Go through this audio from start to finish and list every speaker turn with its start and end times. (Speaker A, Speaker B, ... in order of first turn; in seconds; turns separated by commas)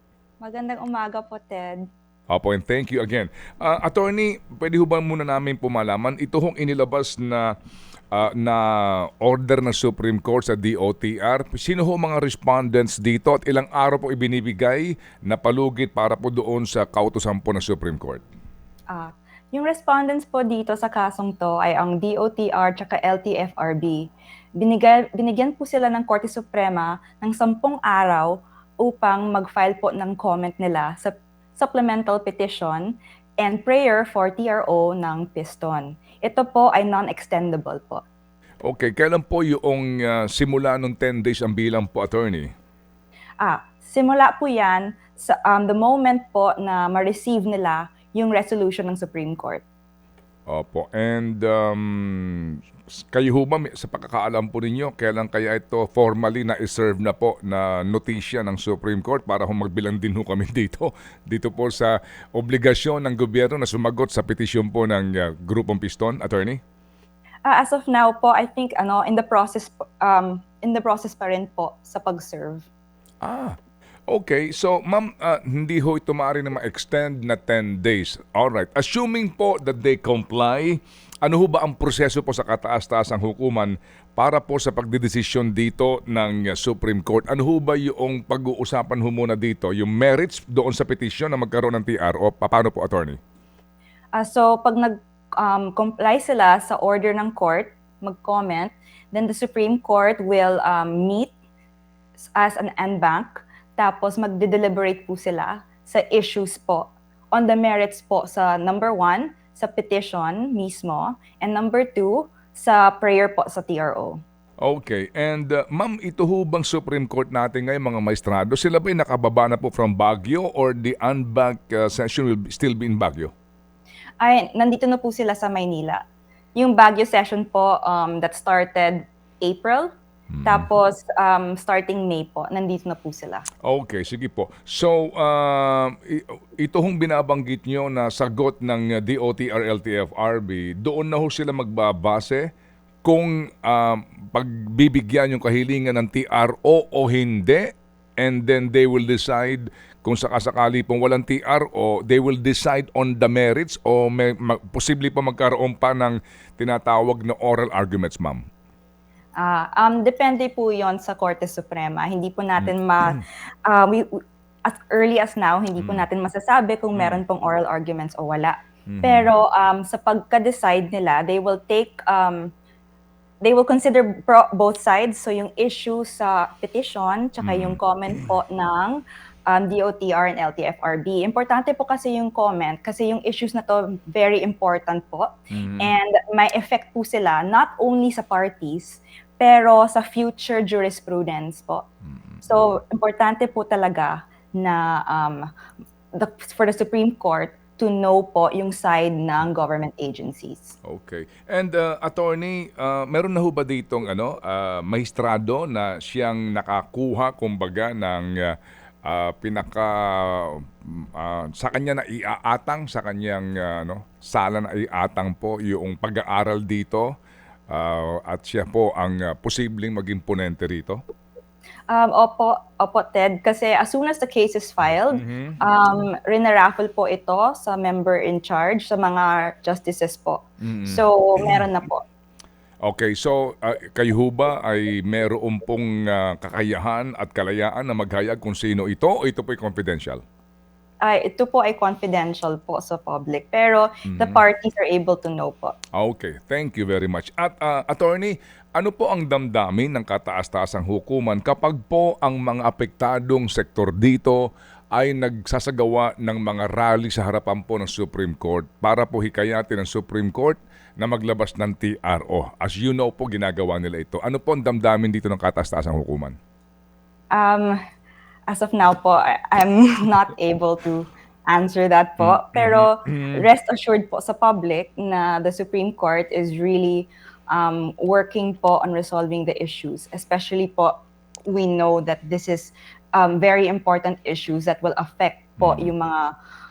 Speaker A: 0.4-1.8, Speaker B: 2.3-7.5, Speaker B: 8.1-18.2, Speaker A: 18.9-38.0, Speaker B: 38.6-42.5, Speaker A: 43.4-49.6, Speaker B: 50.5-66.6, Speaker A: 67.4-72.7, Speaker B: 73.2-73.6, Speaker B: 74.1-93.2, Speaker A: 94.1-101.3, Speaker A: 102.2-114.2, Speaker B: 114.6-123.3, Speaker A: 124.2-126.0, Speaker A: 126.5-129.9, Speaker B: 130.3-130.7, Speaker A: 130.4-133.4, Speaker B: 133.7-142.5, Speaker B: 143.0-158.4, Speaker A: 159.4-172.5, Speaker B: 162.6-163.2, Speaker B: 165.8-166.0, Speaker B: 166.9-167.2, Speaker B: 168.9-169.3, Speaker A: 173.4-191.8, Speaker B: 177.4-177.8, Speaker B: 185.5-185.9, Speaker A: 192.4-195.5, Speaker A: 196.1-200.7, Speaker B: 200.8-217.1, Speaker B: 217.7-221.0, Speaker A: 221.9-232.0, Speaker B: 225.1-225.6, Speaker B: 230.6-231.6, Speaker B: 232.8-240.2, Speaker A: 241.0-245.8, Speaker B: 244.1-244.4, Speaker B: 245.9-254.4, Speaker B: 254.9-266.4, Speaker A: 267.3-267.8, Speaker A: 268.5-280.9, Speaker B: 272.2-273.4, Speaker A: 281.5-286.3, Speaker B: 285.6-285.9